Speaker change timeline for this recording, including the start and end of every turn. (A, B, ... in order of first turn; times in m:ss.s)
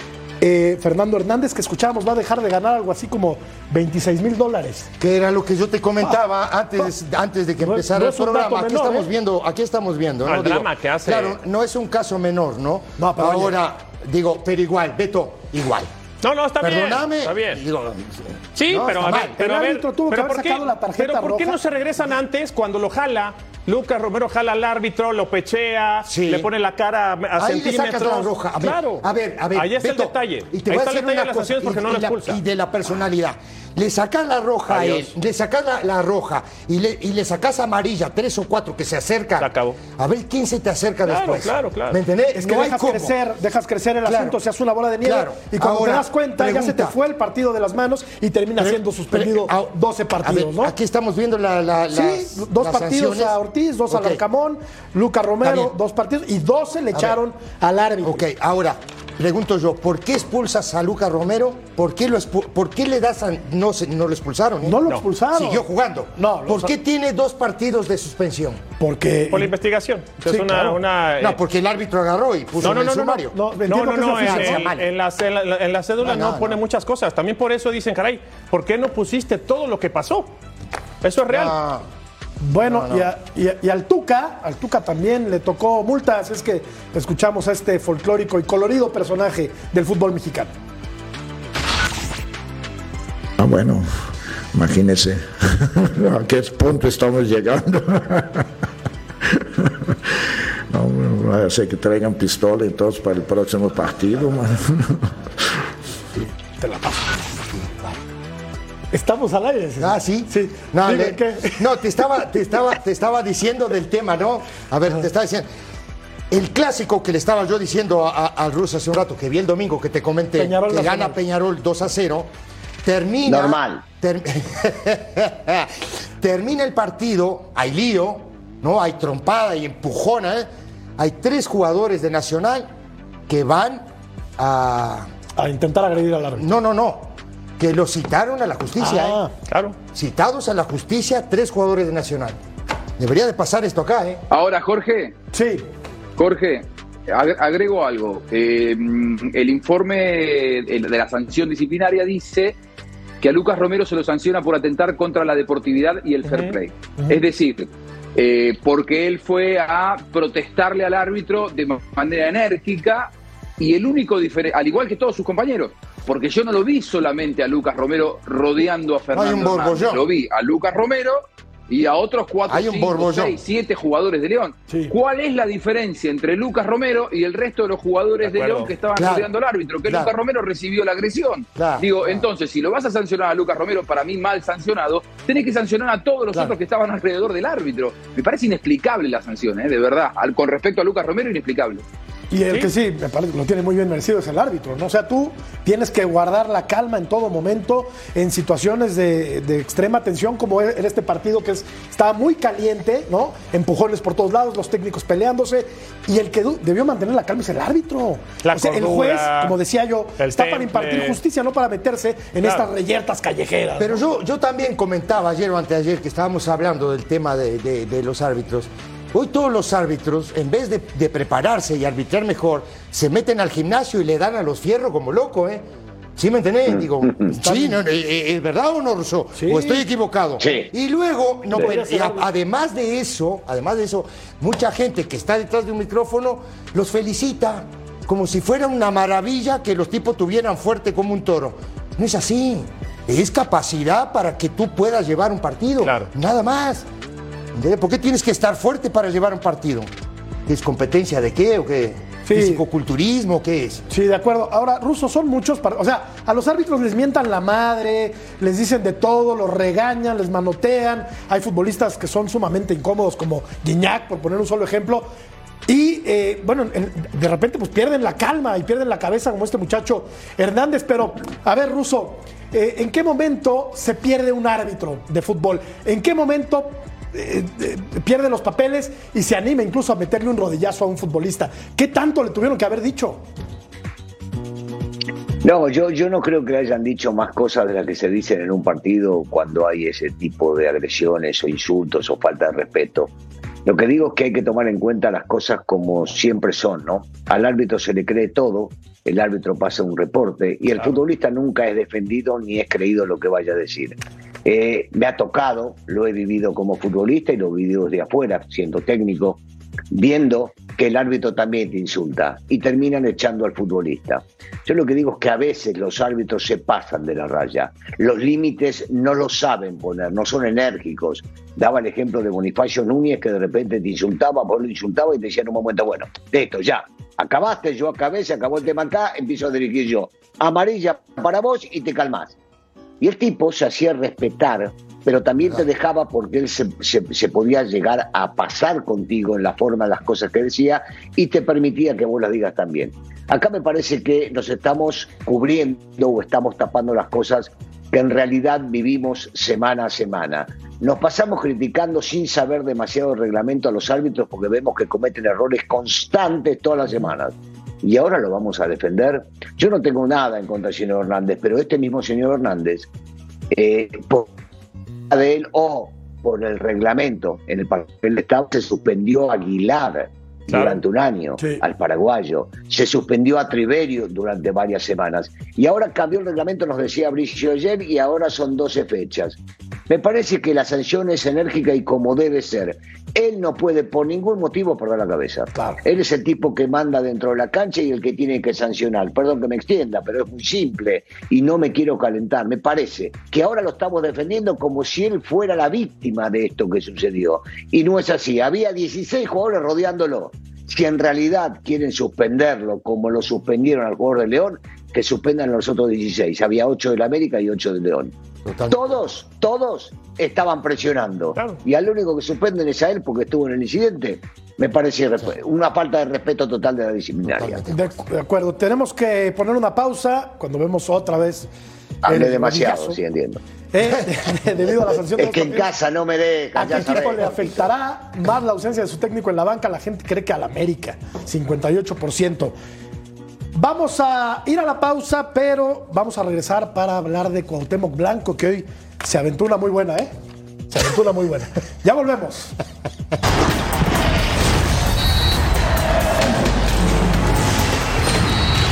0:00.4-0:04.9 A
0:05.0-0:15.9 B
0:07.6-0:09.1 A
0:10.2-0:11.4 C
0:13.0-0:13.6 A
0:16.2-0:17.6 C
0:16.6-0:19.4 B
0:18.5-0:32.4 C
0:19.4-0:21.6 A
0:26.0-0:26.5 B
0:27.4-0:43.1 B
0:34.7-0:35.1 C
0:39.4-0:39.8 C
0:41.0-0:42.0 C
0:42.4-0:50.7 A
0:44.0-0:44.4 B
0:45.0-0:47.0 B
0:48.6-0:53.4 B
0:51.9-0:58.2 A
0:53.9-0:54.2 B
0:55.4-0:55.7 B
0:58.0-1:08.6 B
1:04.6-1:05.6 A
1:06.2-1:06.7 A
1:08.8-1:09.5 A
1:09.3-1:11.4 C
1:10.2-1:10.8 A
1:11.2-1:13.3 B
1:12.6-1:20.3 C
1:12.6-1:14.6 A
1:14.2-1:14.9 B
1:16.0-1:16.6 B
1:21.0-1:21.5 C
1:21.3-1:21.8 B
1:22.4-1:30.5 A
1:22.6-1:23.1 B
1:33.4-1:38.4 D
1:39.3-1:39.9 D
1:40.7-1:45.1 D
1:46.2-1:47.8 A
1:48.9-1:51.8 A
1:49.8-1:55.5 B
1:56.3-2:02.3 B
2:00.4-2:01.2 A
2:02.8-2:12.7 B
2:03.2-2:03.8 E
2:13.3-2:13.8 B
2:14.4-2:15.1 B
2:15.4-2:16.5 A
2:16.4-2:19.2 B
2:18.8-2:19.3 A
2:19.5-2:19.8 C
2:19.9-2:22.4 B
2:23.0-2:24.2 B
2:24.3-2:25.1 F
2:25.3-2:25.7 A
2:26.2-2:32.6 F
2:33.2-3:11.8 F
2:36.3-2:36.6 C
2:49.1-2:50.1 B
2:52.5-2:53.4 B
2:54.7-2:54.9 A
2:58.2-2:58.7 C
2:59.0-2:59.3 B
2:59.8-3:00.1 B
3:01.5-3:01.9 B
3:12.3-3:34.0 A
3:28.4-3:29.6 C
3:30.2-3:31.2 C
3:32.4-3:32.7 C
3:33.8-3:45.6 B
3:46.2-4:06.8 B
3:46.7-3:47.3 E
3:47.4-3:47.8 A
3:49.4-3:49.8 A
3:50.4-3:50.7 E
3:51.6-3:52.3 A
4:05.8-4:06.1 C
4:07.5-4:09.9 B
4:10.4-4:13.8 B
4:12.2-4:12.6 A
4:13.9-4:25.1 A
4:25.7-4:43.2 A
4:45.4-4:53.1 E
4:53.6-5:32.3 E
5:33.0-6:02.9 E
6:03.5-6:04.3 E
6:05.1-6:19.4 E
6:10.5-6:10.8 C
6:19.9-6:48.1 E
6:25.5-6:25.8 A
6:48.4-6:49.0 B
6:48.7-6:57.6 E
6:57.2-6:58.0 B
6:57.7-7:01.5 A
7:02.0-7:03.4 E
7:02.1-7:03.0 A
7:03.7-7:05.7 A
7:05.2-7:07.6 E
7:06.6-7:12.5 A
7:06.7-7:07.4 B
7:13.5-7:20.1 A
7:20.7-7:22.5 A